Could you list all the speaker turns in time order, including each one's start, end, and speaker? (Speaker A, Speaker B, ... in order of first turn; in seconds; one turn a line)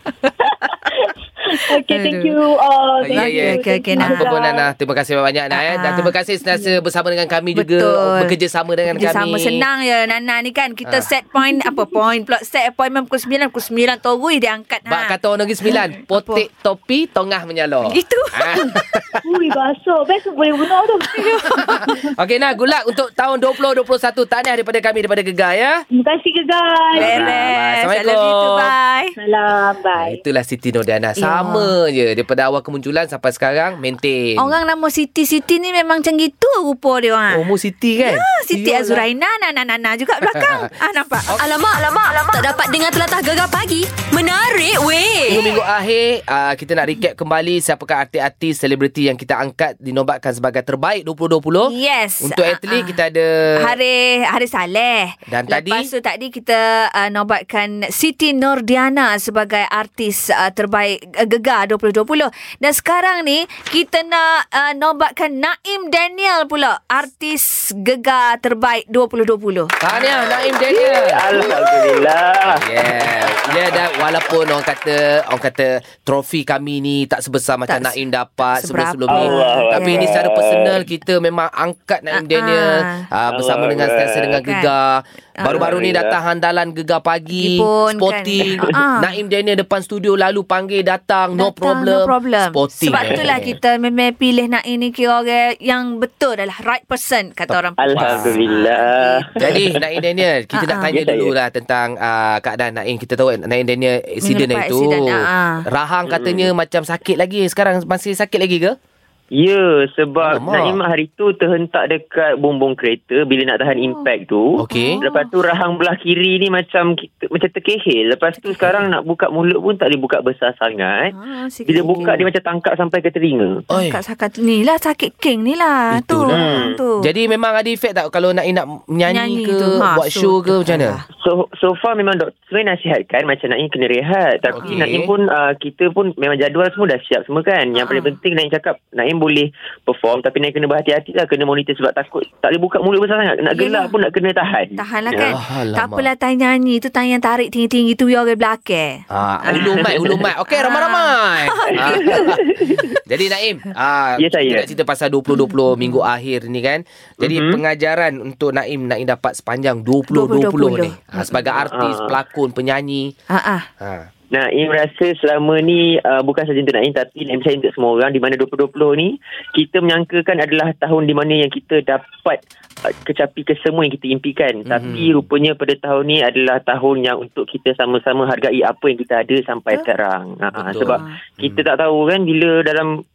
Speaker A: 0.5-4.7
Speaker B: 1.9-2.4
Speaker C: 3.0-9.7
Speaker B: 3.1-4.3
Speaker B: 5.5-6.1
Speaker B: 7.5-8.3
Speaker B: 8.9-16.4
Speaker A: 11.5-11.8
Speaker C: 14.9-19.2
Speaker B: 17.9-18.8
Speaker A: 19.2-22.1
Speaker C: 21.2-25.8
Speaker B: 21.2-21.8
Speaker A: 25.9-27.5
Speaker C: 26.9-28.7
Speaker B: 26.9-29.1
Speaker A: 29.2-30.2
Speaker C: 29.9-34.5
Speaker B: 31.2-31.7
Speaker B: 34.4-37.4
Speaker C: 37.3-39.1
Speaker B: 38.0-41.3
Speaker C: 40.2-40.7
Speaker C: 41.3-41.5
Speaker D: 41.4-45.4
Speaker C: 45.3-53.7
Speaker B: 51.7-53.0
Speaker B: 53.6-70.3
Speaker C: 55.3-55.9
Speaker C: 69.8-71.2
Speaker E: 70.7-73.7
Speaker C: 72.5-93.6
Speaker B: 77.7-80.1
Speaker E: 79.1-80.8
Speaker B: 82.1-83.1
Speaker E: 83.3-84.4
Speaker B: 84.4-84.7
Speaker B: 85.4-85.7
Speaker E: 85.4-86.2
Speaker B: 87.3-89.2
Speaker B: 91.4-99.4
Speaker C: 97.5-98.5
Speaker E: 97.8-99.8
Speaker C: 99.4-105.2
Speaker B: 100.5-101.0
Speaker E: 100.9-101.3
Speaker B: 104.2-105.7
Speaker C: 105.7-108.8
Speaker E: 106.1-106.5
Speaker E: 109.3-121.1
Speaker C: 110.2-110.8
Speaker B: 113.8-114.0
Speaker C: 114.6-115.0
Speaker B: 114.7-115.3
Speaker B: 118.4-118.8
Speaker B: 121.1-122.2
Speaker E: 121.7-123.6
Speaker B: 123.7-127.0
Speaker C: 123.7-124.0
Speaker C: 125.9-131.0
Speaker E: 126.3-126.8
Speaker B: 129.1-131.1
Speaker E: 131.2-145.4
Speaker C: 134.5-135.1
Speaker B: 134.6-134.9
Speaker B: 137.8-138.2
Speaker B: 143.5-143.9
Speaker B: 144.8-149.8
Speaker C: 145.1-146.1
Speaker C: 149.1-163.1
Speaker E: 149.5-150.2
Speaker B: 150.5-152.9
Speaker E: 151.8-153.0
Speaker E: 154.2-154.7
Speaker B: 155.3-156.0
Speaker E: 157.2-157.6
Speaker B: 160.1-161.3
Speaker E: 161.5-162.2
Speaker B: 163.3-163.7
Speaker C: 163.8-164.1
Speaker E: 164.3-182.9
Speaker C: 174.7-175.3
Speaker C: 180.6-181.6